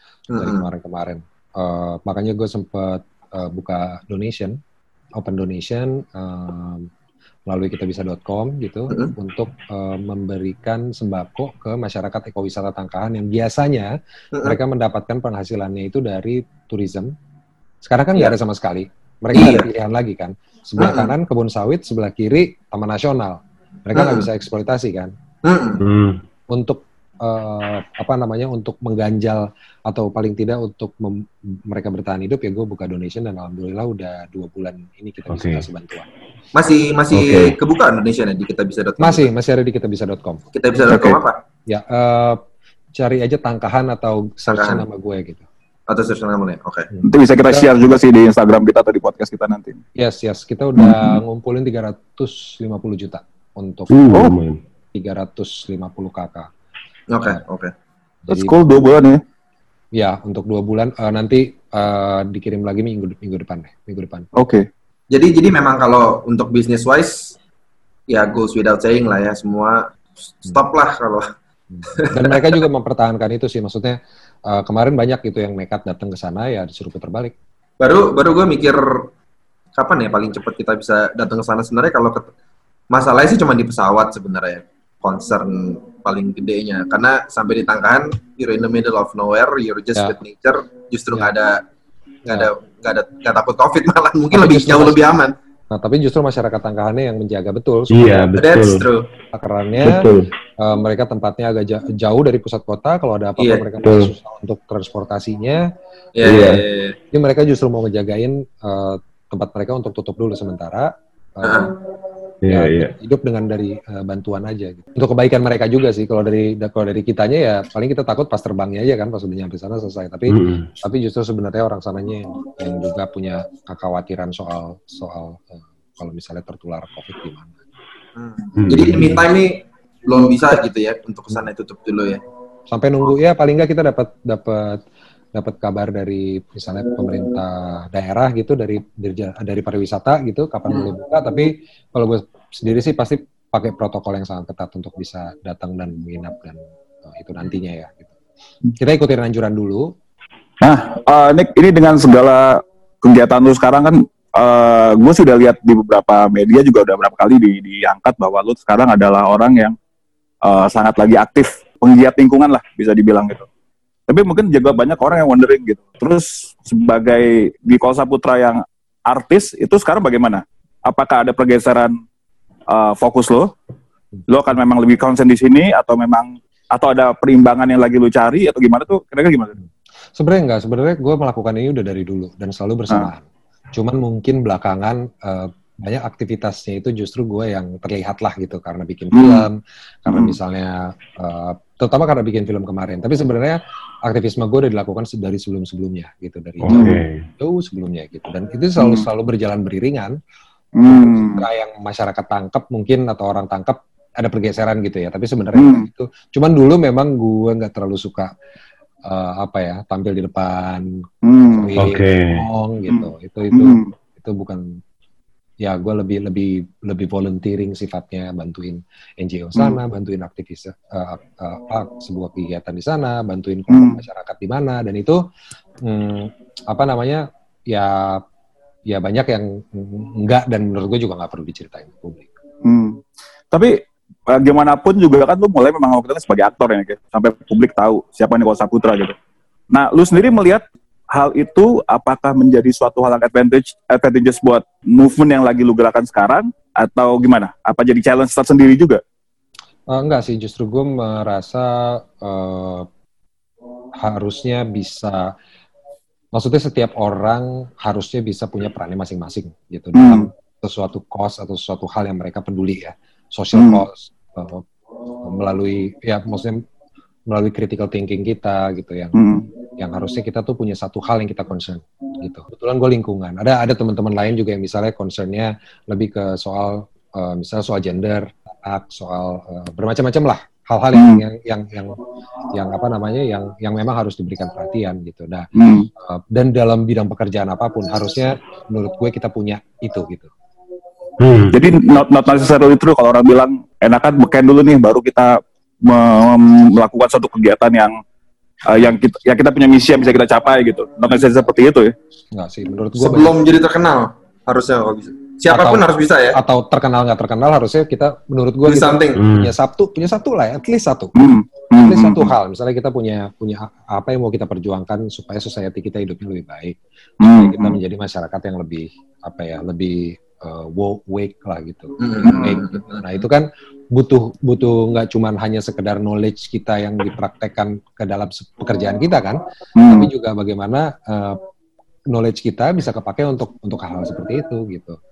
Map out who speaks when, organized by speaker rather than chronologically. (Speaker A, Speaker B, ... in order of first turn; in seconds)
Speaker A: 0.3-0.6, 19.3-19.6, 20.8-21.1, 23.9-24.2, 25.4-25.8, 36.5-39.3, 40.5-41.4, 44.5-44.8, 45.9-46.9, 57.1-57.7, 65.1-67.3, 68.1-71.3, 71.9-72.5, 77.8-79.1, 79.8-82.3, 82.9-91.6, 92.3-95.3, 98.3-99.1, 103.4-103.6, 106.2-107.0, 111.4-111.7, 128.2-132.2, 303.0-306.4, 308.6-309.2, 322.0-323.0
Speaker B: 0.4-4.6, 5.2-6.9, 7.5-17.1, 17.8-25.1, 26.5-36.1, 39.0-40.4, 41.7-42.4, 43.0-45.4, 46.9-47.7, 50.0-53.9, 54.9-56.5, 58.2-58.5, 59.9-64.3, 71.7-77.3, 94.3-95.0, 95.7-98.3, 99.3-105.7, 106.2-111.7, 112.4-127.5, 132.7-134.8, 135.3-148.1, 148.8-149.9, 180.2-200.2, 200.9-208.3, 209.0-214.8, 215.6-225.2, 225.8-228.2, 228.9-232.3, 249.9-252.9, 254.0-255.3, 256.3-264.6, 265.2-266.6, 267.3-269.2, 269.8-282.0, 282.5-290.3, 302.3-303.3, 305.5-331.4, 332.1-335.0
Speaker C: 25.8-26.2, 35.3-35.6, 37.1-37.5, 53.9-54.6, 97.9-98.8, 99.8-100.3, 103.8-104.1, 106.2-106.6, 112.4-112.9, 120.3-120.7, 128.6-129.2, 196.6-197.2, 211.8-212.4, 291.2-291.6, 309.1-309.5
Speaker D: 40.9-41.2, 47.0-49.8, 50.8-51.2, 54.1-54.4, 58.3-59.2, 64.3-64.7, 150.6-159.7, 160.4-163.5, 164.1-171.9, 172.7-173.5, 174.3-179.6, 189.1-189.5, 190.1-190.4, 196.7-197.0, 198.8-199.1, 200.8-201.4, 205.5-205.9, 211.2-211.8, 212.9-213.9, 223.7-224.0, 232.6-233.7, 234.3-239.1, 239.7-249.0, 259.9-260.3, 263.5-263.8, 269.1-269.4, 280.9-281.2, 285.5-285.9, 291.5-297.9, 298.6-301.9, 311.1-312.3, 317.2-317.8, 329.8-330.1